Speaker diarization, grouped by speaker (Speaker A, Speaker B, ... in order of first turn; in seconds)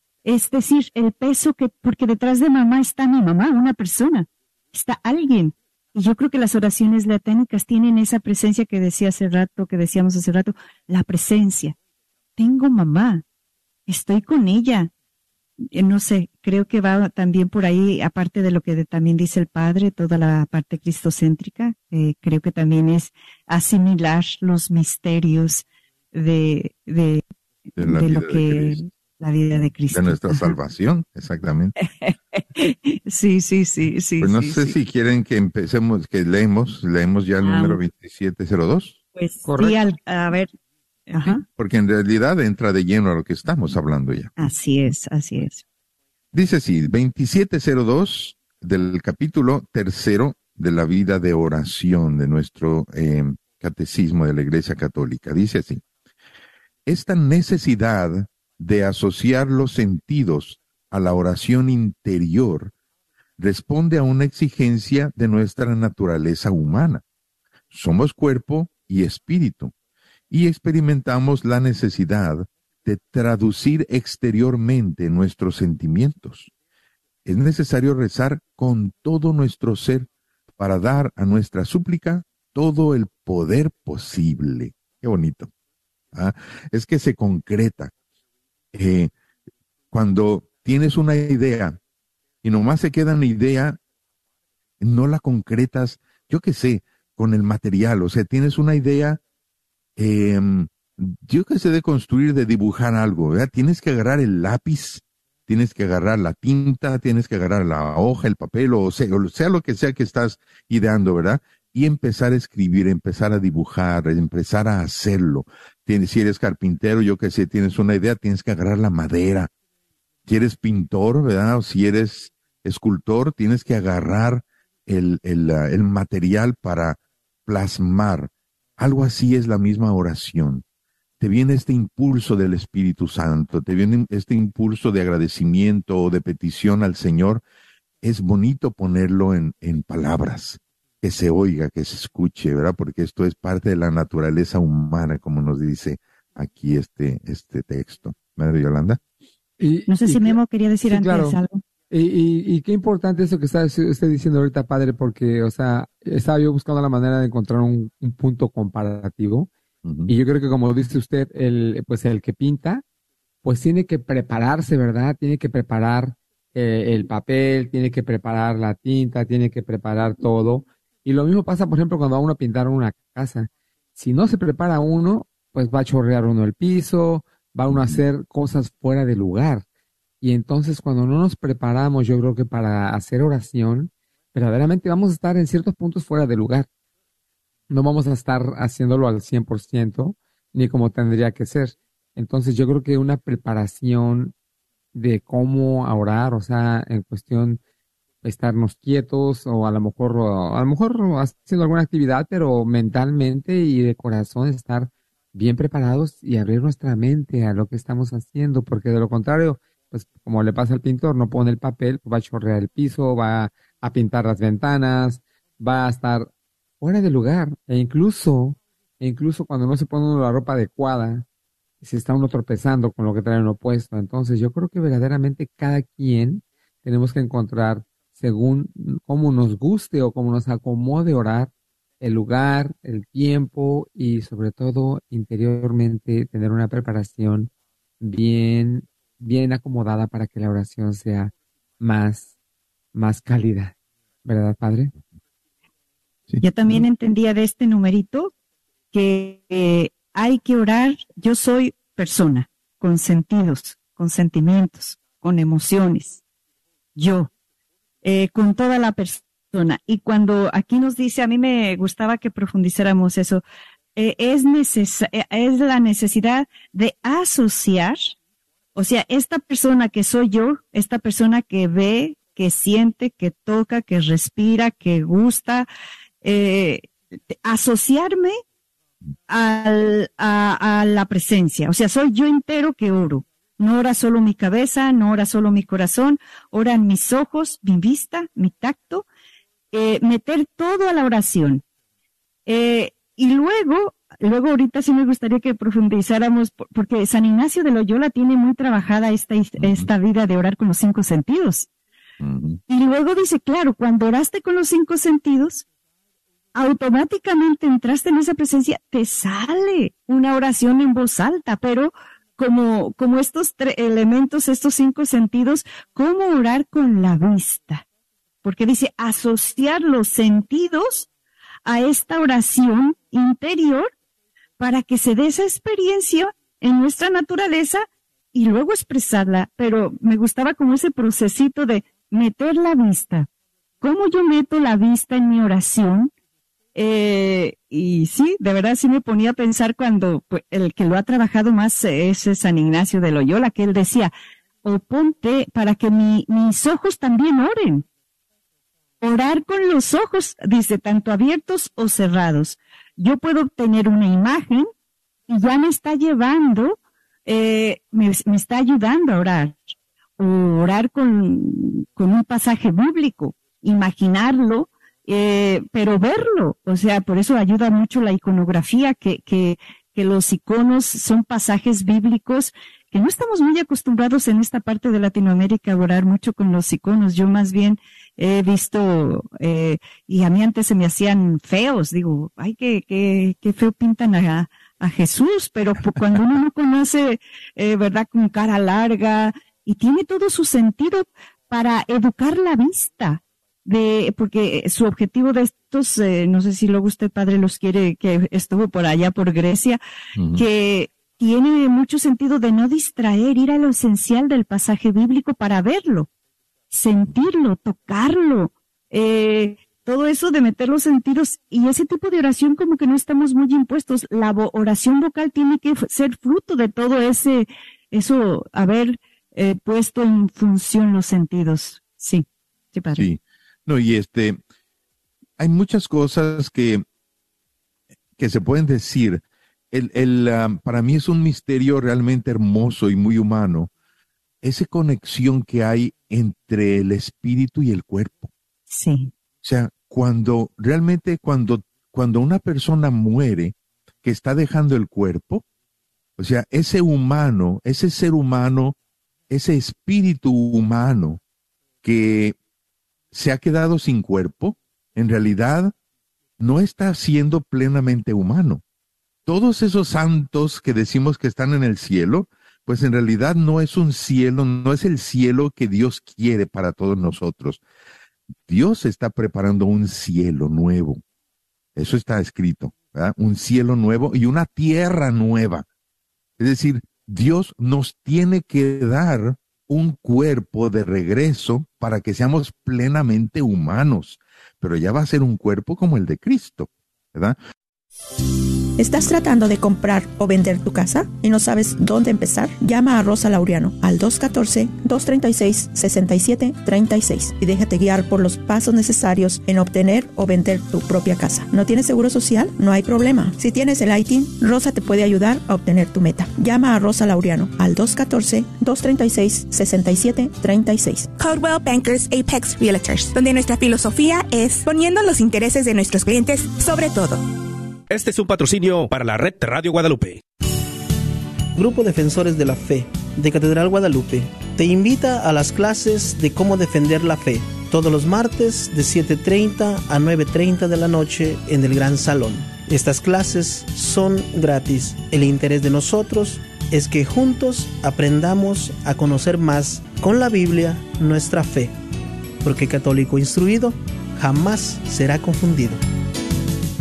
Speaker A: 0.2-11.8, 12.4-13.2, 13.9-14.9, 15.7-27.2, 27.8-30.5, 31.8-34.8, 37.4-37.8, 39.2-40.5, 41.1-41.4, 44.4-45.6, 149.9-151.6, 246.4-248.3, 248.9-256.2, 257.0-257.3, 258.0-263.4, 264.0-268.1, 268.8-275.7, 276.2-278.4, 279.3-289.1, 289.7-291.6, 292.5-301.7, 302.7-305.6, 306.6-317.8, 318.4-321.1, 321.6-323.9, 324.6-333.3, 333.8-336.1, 336.8-344.1, 344.6-347.9, 349.0-354.7, 355.3-399.8, 400.3-406.1, 406.7-423.1, 438.7-439.1
Speaker B: 27.8-28.8, 29.9-31.7, 34.2-39.0, 41.3-44.3, 46.3-55.8, 56.9-62.7, 63.4-67.0, 67.7-69.7, 70.3-76.5, 77.3-80.1, 80.6-85.5, 86.1-87.9, 88.7-89.1, 89.9-91.8, 92.4-93.8, 94.8-99.2, 100.0-119.5, 120.3-130.6, 131.2-137.4, 138.0-149.0, 159.8-160.1, 177.7-178.0, 246.3-246.8, 299.6-299.9, 302.2-302.6, 400.2-400.4, 422.9-424.4, 425.4-426.9, 428.2-433.7, 434.4-438.3, 439.4-445.4, 446.2-448.8, 449.3-451.2, 451.8-452.4, 453.1-455.7, 456.4-458.6, 459.3-467.6, 468.5-471.0, 471.8-475.6, 476.4-487.4
Speaker C: 39.4-39.8, 149.6-159.5, 160.1-162.8, 163.4-179.7, 180.2-186.7, 187.7-194.3, 194.9-197.6, 198.2-216.3, 216.8-221.3, 221.8-242.3, 242.9-243.7, 244.2-244.9
Speaker D: 488.8-511.1
Speaker E: 511.2-517.2
Speaker F: 517.9-520.2
Speaker G: 521.5-541.8, 542.4-545.8